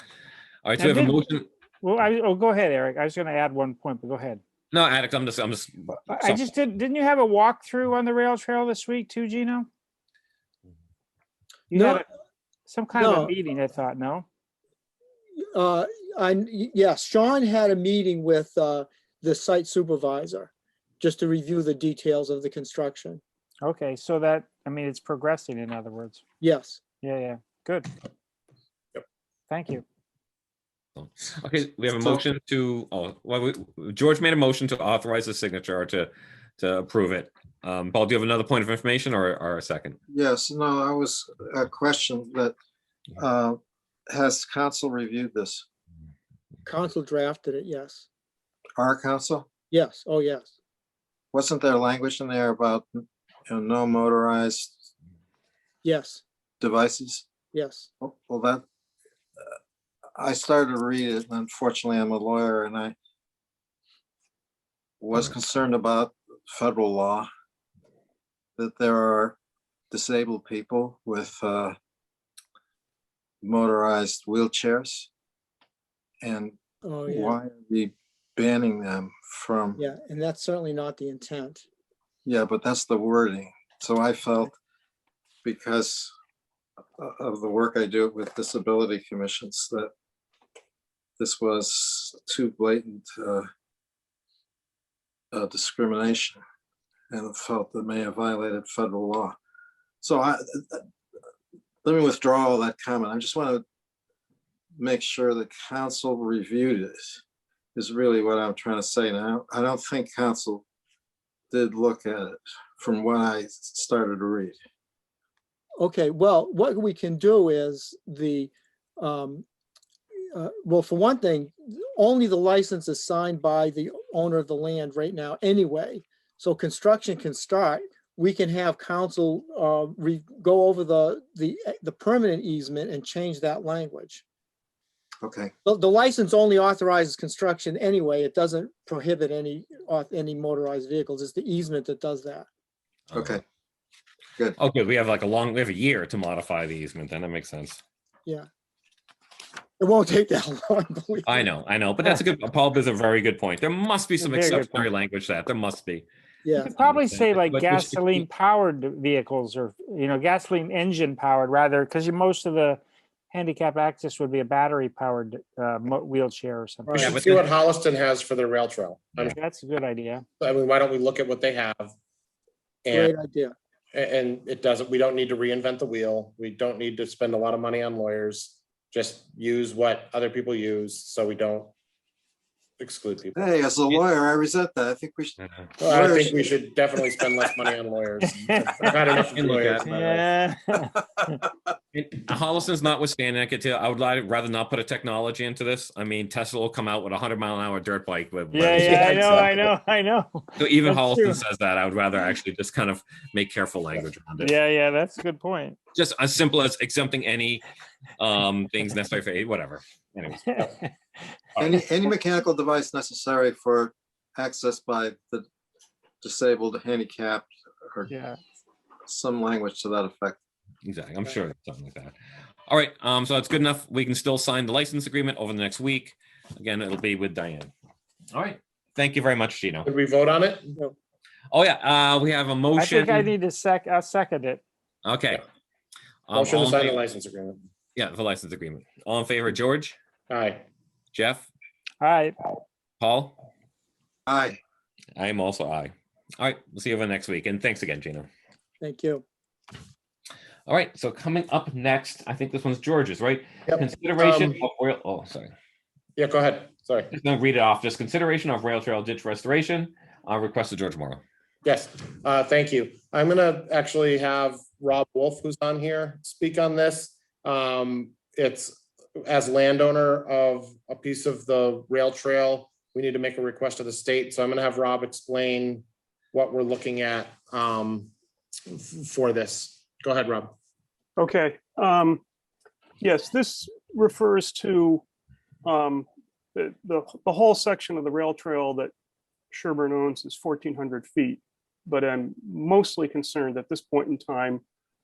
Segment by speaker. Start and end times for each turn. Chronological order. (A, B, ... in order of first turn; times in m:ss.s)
0:00.6-0:01.4 A
0:00.8-0:04.4 B
0:04.7-0:06.5 A
0:06.1-0:09.7 B
0:11.7-0:12.0 B
0:11.7-0:12.0 C
0:12.7-0:14.2 B
0:13.0-0:13.3 C
0:15.5-0:23.2 C
0:23.6-0:26.2 B
0:26.4-0:26.8 C
0:27.0-0:27.9 B
0:29.5-0:29.8 B
0:31.0-0:40.0 A
0:40.1-0:42.5 D
0:43.2-0:43.6 D
0:44.1-0:45.6 D
0:46.6-0:48.1 C
0:48.8-0:49.5 D
0:49.7-0:50.5 C
0:51.3-0:54.8 D
0:55.8-0:56.2 C
0:56.6-0:57.2 D
0:57.5-0:57.9 C
0:58.0-0:58.6 D
1:00.2-1:02.9 D
1:05.0-1:07.3 D
1:08.6-1:09.4 D
1:09.9-1:11.7 D
1:13.4-1:15.1 D
1:16.2-1:16.5 D
1:16.8-1:17.4 C
1:17.0-1:19.8 D
1:19.8-1:21.6 C
1:22.2-1:24.5 D
1:25.4-1:26.1 D
1:27.0-1:29.9 D
1:31.2-1:33.4 D
1:35.3-1:36.4 D
1:37.1-1:39.3 D
1:40.0-1:40.8 D
1:41.8-1:43.6 D
1:44.8-1:47.2 D
1:47.8-1:50.6 D
1:51.5-1:54.5 D
1:55.8-1:59.4 C
2:00.3-2:14.2 C
2:15.2-2:15.5 D
2:15.6-2:22.5 C
2:23.1-2:23.4 A
2:23.1-2:23.4 D
2:24.6-2:27.8 A
2:29.8-2:31.5 C
2:31.2-2:36.0 A
2:34.2-2:34.9 B
2:36.4-2:36.7 C
2:36.6-2:47.1 B
2:36.8-2:38.2 A
2:46.9-2:49.4 E
2:47.0-2:47.4 A
2:49.3-2:50.2 B
2:50.4-2:51.9 E
2:52.8-2:53.1 E
2:52.9-2:53.5 C
2:53.9-3:01.7 E
3:02.8-3:03.5 E
3:03.3-3:06.6 D
3:05.8-3:10.2 E
3:09.1-3:09.9 A
3:09.8-3:11.4 B
3:11.9-3:19.5 A
3:18.5-3:21.4 B
3:18.8-3:19.5 E
3:20.6-3:24.5 A
3:24.4-3:25.8 B
3:25.9-3:27.6 A
3:28.2-3:30.4 A
3:30.4-3:30.9 B
3:31.6-3:35.4 D
3:36.2-3:38.1 D
3:38.1-3:38.4 B
3:39.1-3:40.4 D
3:40.8-3:42.1 A
3:42.7-3:47.7 A
3:48.3-3:49.9 A
3:49.8-3:50.7 E
3:51.5-3:53.3 A
3:52.8-3:54.6 B
3:55.0-3:55.4 A
3:56.3-3:57.0 A
3:56.3-3:57.6 E
3:58.0-4:00.0 A
4:00.3-4:00.6 E
4:01.1-4:01.5 A
4:02.0-4:02.4 B
4:03.0-4:03.4 A
4:04.3-4:04.6 D
4:05.2-4:08.3 A
4:08.8-4:09.2 C
4:10.7-4:15.5 A
4:13.7-4:14.6 E
4:16.2-4:17.1 E
4:17.1-4:21.2 A
4:21.6-4:38.1 E
4:38.7-4:40.5 E
4:41.2-4:42.2 F
4:43.0-4:45.0 F
4:45.6-4:48.9 F
4:49.5-4:54.6 F